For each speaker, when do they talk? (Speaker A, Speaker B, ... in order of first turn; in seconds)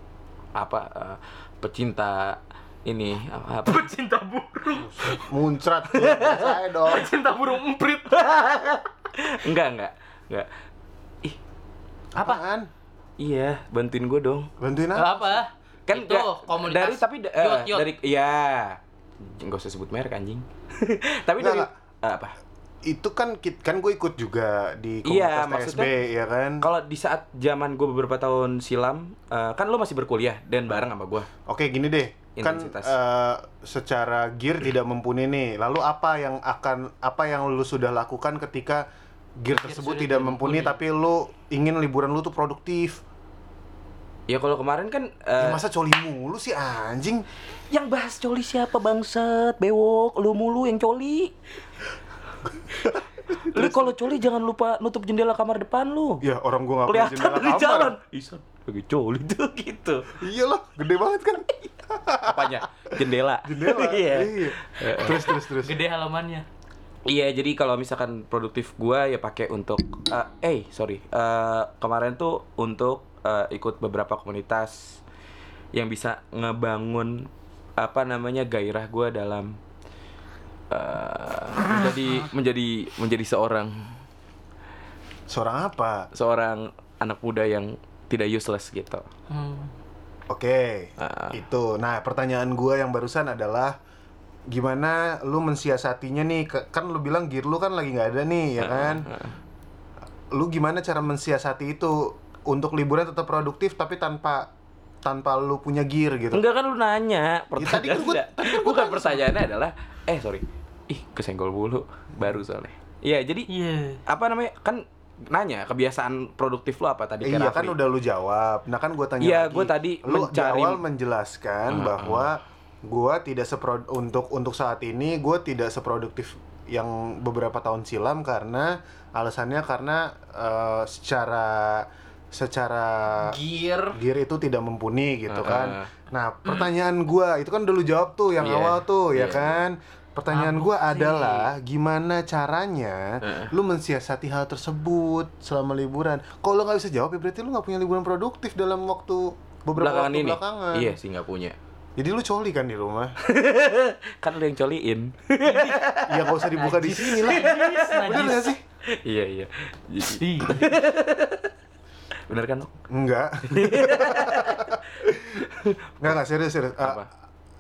Speaker A: 0.6-3.9, 6.0-6.4, 8.1-10.5, 13.2-14.5, 15.9-22.4, 25.1-25.9, 26.6-31.3, 32.4-32.9, 44.3-45.6, 47.7-51.3, 53.5-56.2, 56.9-60.1, 62.2-65.3, 67.1-75.0, 75.7-79.6, 80.7-84.0, 86.1-89.1, 91.0-91.4, 98.6-99.3, 106.3-113.5, 114.1-117.8, 119.2-120.8, 121.7-122.3, 135.3-135.9, 138.4-139.6, 143.2-143.5, 149.8-151.6, 153.2-156.4, 157.1-158.2, 158.9-161.5, 162.3-162.8, 163.5-164.8, 165.4-166.1, 166.8-167.1
Speaker B: 3.6-5.2, 6.1-8.2, 14.9-17.9, 39.5-40.8, 65.6-66.5, 89.3-89.7, 113.5-114.0, 133.2-134.0, 140.3-141.5, 155.4-155.9, 156.5-158.5, 160.1-160.8
Speaker C: 4.8-7.1, 12.1-12.7, 14.6-15.4, 21.4-21.7, 22.9-26.7, 31.5-38.9, 39.4-43.0, 45.4-47.2, 52.7-54.1, 56.2-58.0, 60.1-62.6, 63.4-65.8, 85.3-86.1, 90.3-93.8, 94.5-99.1, 100.3-104.5, 105.0-106.4, 107.6-109.3, 117.2-133.4, 133.9-151.0, 152.0-153.1, 156.1-158.6, 162.9-165.5, 166.0-167.1